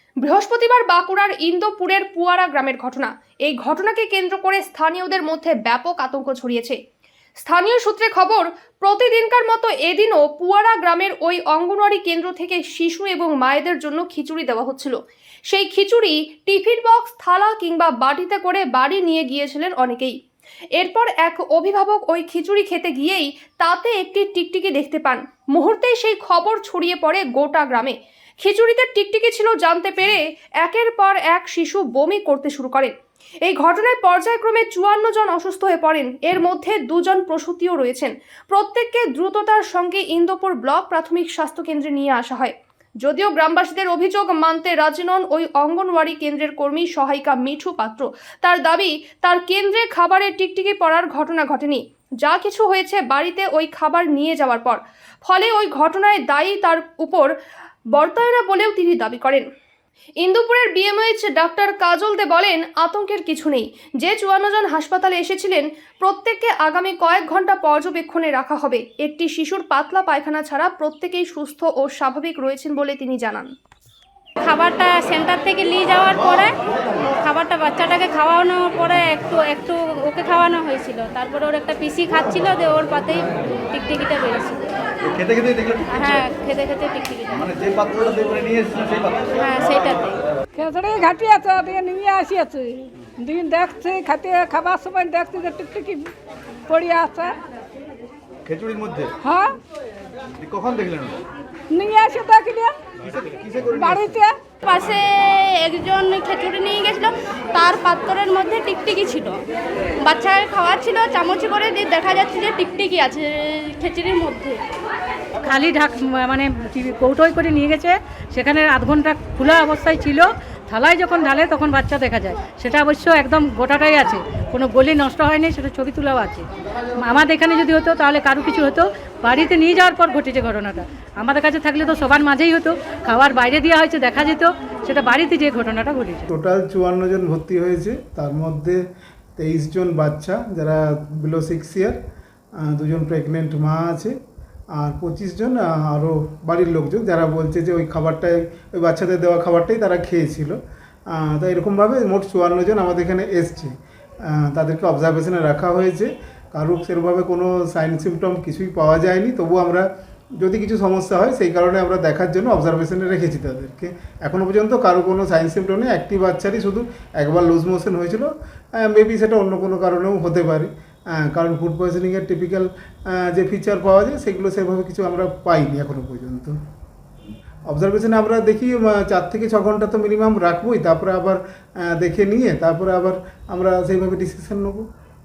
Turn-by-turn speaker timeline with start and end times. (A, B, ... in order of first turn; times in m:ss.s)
0:00.2-0:06.8 A
0:07.4-0:20.2 A
0:20.8-0:57.3 A
0:57.9-0:59.5 A
1:00.2-1:13.5 A
1:14.4-1:24.6 B
1:25.2-1:25.9 C
1:25.9-1:27.5 B
1:27.5-1:29.3 C
1:29.3-1:30.2 B
1:30.5-1:36.1 D
1:36.7-1:37.4 D
1:38.4-1:39.1 C
1:39.2-1:39.6 D
1:40.4-1:41.2 C
1:41.7-1:42.7 D
1:43.0-1:43.9 C
1:43.7-1:44.4 D
1:44.6-1:49.4 B
1:50.0-1:54.6 B
1:55.4-2:06.4 E
2:07.0-2:16.3 E
2:16.3-2:18.8 F
2:19.4-2:22.0 F
2:22.6-2:24.1 F
2:24.7-2:30.6 F
2:31.1-2:39.9 F
2:40.4-2:56.6 F
2:57.7-3:04.8 F